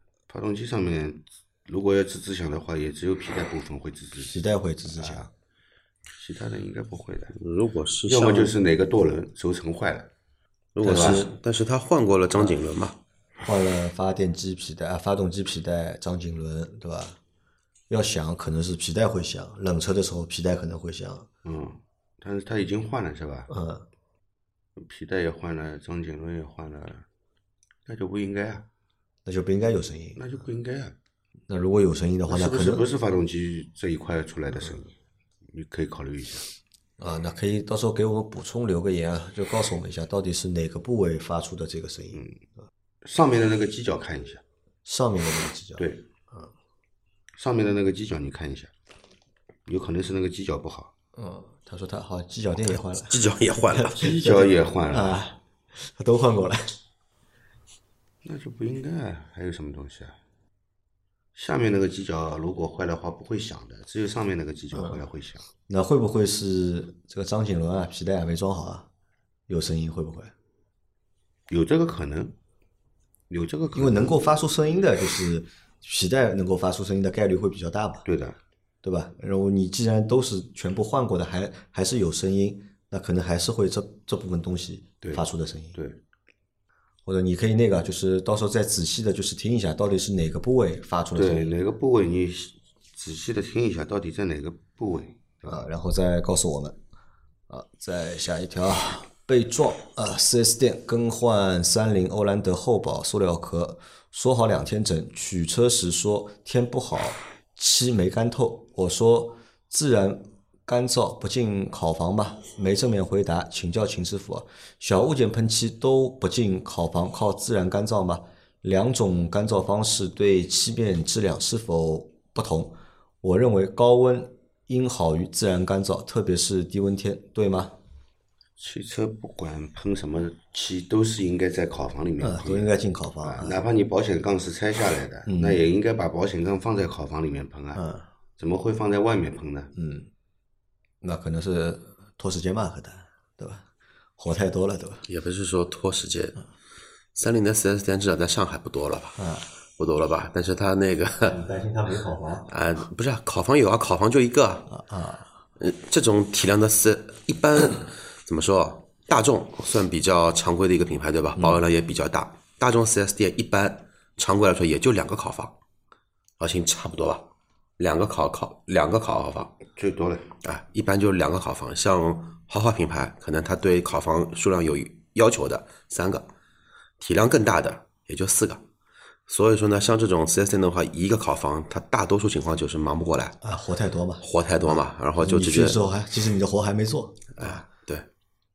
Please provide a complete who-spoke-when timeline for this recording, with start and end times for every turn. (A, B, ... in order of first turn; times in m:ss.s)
0:00.3-0:05.3 A
0:04.2-0:05.3 B
0:06.2-0:07.3 A
0:07.3-0:08.5 C
0:08.0-0:10.1 A
0:10.7-0:13.0 C
0:10.8-0:11.2 A
0:10.8-0:11.3 B
0:13.4-0:17.2 B
0:17.9-0:21.3 B
0:21.4-0:23.5 A
0:23.5-0:23.8 B
0:24.8-0:27.0 A
0:27.8-0:28.6 A
0:29.2-0:30.2 B
0:30.1-0:30.9 A
0:31.5-0:32.9 B
0:32.3-0:34.9 A
0:35.5-0:36.4 A
0:37.0-0:42.2 B
0:42.1-0:42.4 A
0:43.0-0:44.4 A
0:44.8-0:46.5 B
0:45.8-0:46.0 A
0:47.4-0:48.7 A
0:49.6-0:50.9 A
0:51.2-0:56.7 B
0:53.1-0:54.2 C
0:54.0-0:55.2 A
0:58.2-1:00.2 A
1:01.3-1:05.4 A
1:04.7-1:05.0 B
1:05.7-1:08.9 B
1:09.5-1:10.3 B
1:11.5-1:12.3 A
1:13.3-1:14.2 A
1:13.7-1:18.0 B
1:18.0-1:18.4 A
1:18.8-1:25.8 B
1:25.0-1:26.0 A
1:27.0-1:31.5 B
1:31.1-1:35.7 A
1:35.4-1:36.8 B
1:37.5-2:07.8 B
2:08.6-2:17.8 A
2:12.2-2:13.6 B
2:15.3-2:15.6 B
2:17.7-2:18.1 B
2:18.4-2:19.7 A
2:19.7-2:20.1 B
2:21.0-2:23.6 B
2:24.2-2:25.0 B
2:25.1-2:26.4 C
2:27.2-2:29.2 C
2:29.2-2:29.5 B
2:29.8-2:31.4 C
2:31.2-2:32.5 B
2:32.5-2:34.7 C
2:34.7-2:35.3 B
2:35.6-2:45.5 C
2:41.4-2:41.6 B
2:46.4-2:47.3 C
2:47.8-2:49.5 C
2:49.7-2:50.3 A
2:50.4-2:56.2 C
2:57.0-2:58.6 C
2:59.3-3:03.4 C
3:03.4-3:04.2 B
3:04.2-3:05.8 C
3:05.2-3:07.6 B
3:07.3-3:08.1 C